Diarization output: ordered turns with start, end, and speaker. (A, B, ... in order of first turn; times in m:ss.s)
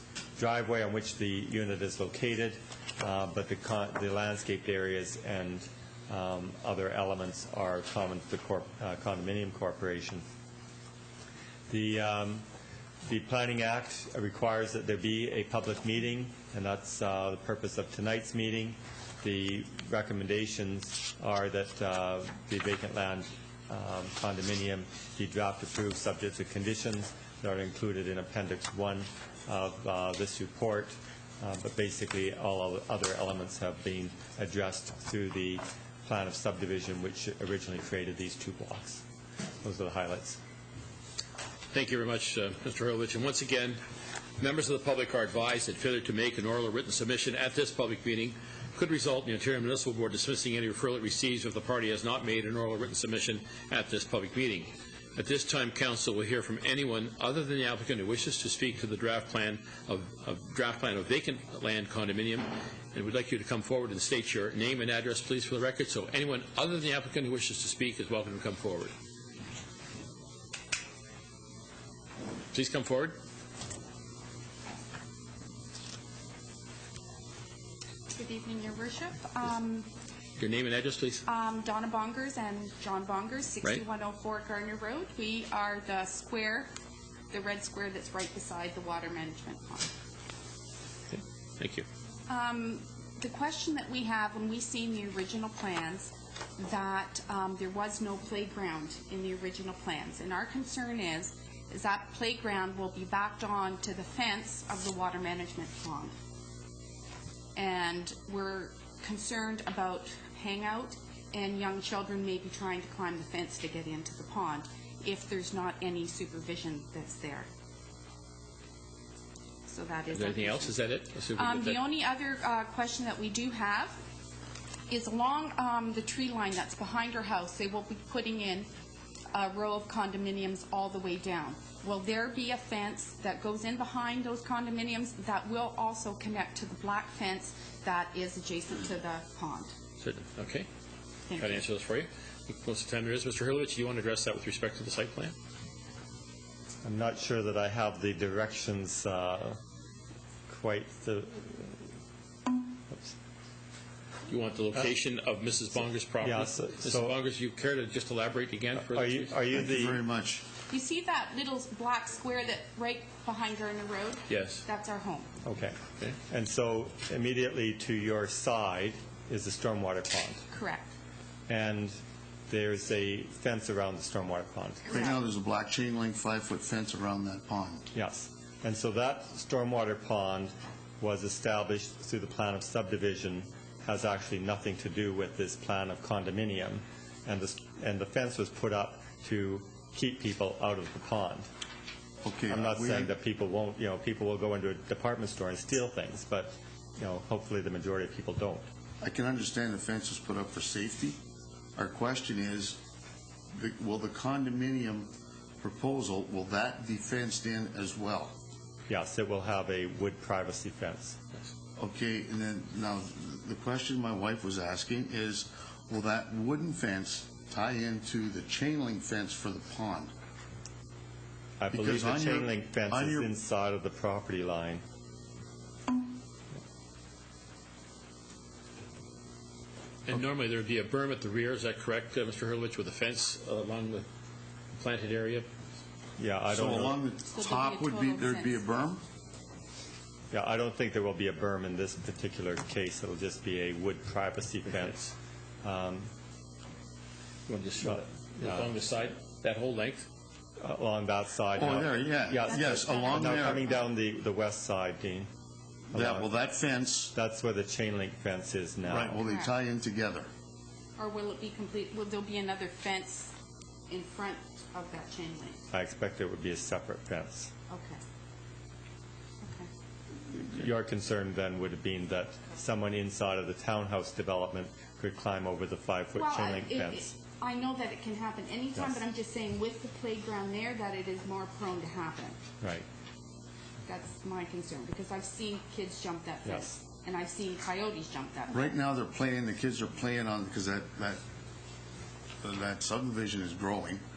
0:00.4-0:10.2 A
0:11.7-0:12.4 A
0:13.1-0:39.0 A
0:39.6-0:40.4 A
0:41.7-0:43.8 B
0:44.4-1:08.9 B
1:12.5-1:13.2 B
1:18.1-1:19.9 C
1:20.4-1:21.2 B
1:21.3-1:26.7 C
1:27.3-1:29.9 C
1:31.1-1:31.9 B
1:32.3-1:46.1 C
1:47.6-1:57.5 C
1:59.7-2:00.8 C
2:00.1-2:01.8 B
2:01.4-2:04.0 C
2:04.9-2:08.7 C
2:09.3-2:19.8 C
2:20.0-2:20.7 B
2:21.3-2:21.6 C
2:21.4-2:25.4 B
2:26.8-2:29.6 A
2:30.5-2:31.9 A
2:32.9-2:33.2 A
2:34.3-2:39.3 B
2:36.2-2:37.1 A
2:38.8-2:40.0 A
2:39.5-2:40.4 D
2:40.7-2:45.3 C
2:44.3-2:44.6 B
2:45.4-2:50.4 A
2:50.5-2:50.9 C
2:51.5-2:52.0 A
2:52.5-2:54.9 A
2:54.9-2:57.9 D
2:57.9-3:11.5 A
3:12.2-3:13.1 D
3:12.5-3:18.7 A
3:19.0-3:21.2 D
3:21.8-3:22.8 D
3:23.5-3:28.4 D
3:28.9-3:31.2 A
3:31.8-3:40.1 D
3:41.6-3:44.8 A
3:41.7-3:43.3 D
3:50.1-3:54.1 B
3:54.8-3:55.5 B
3:56.2-3:57.0 A
3:56.5-3:59.0 D
3:57.3-3:58.6 C
4:00.3-4:06.1 A
4:07.5-4:10.1 B
4:07.8-4:08.7 A
4:10.6-4:15.3 A
4:11.6-4:13.8 D
4:12.4-4:13.9 C
4:15.9-4:17.1 D
4:15.9-4:16.3 A
4:17.1-4:19.2 A
4:18.8-4:20.3 D
4:19.2-4:19.6 C
4:21.0-4:23.4 C
4:23.9-4:25.6 C
4:25.7-4:27.5 A
4:27.7-4:28.0 C
4:29.4-4:29.7 C
4:30.2-4:37.1 A
4:36.2-4:42.4 C
4:42.6-4:42.9 A
4:43.9-4:48.8 C
4:46.4-4:46.8 A
4:48.5-4:51.2 D
4:52.4-4:54.0 D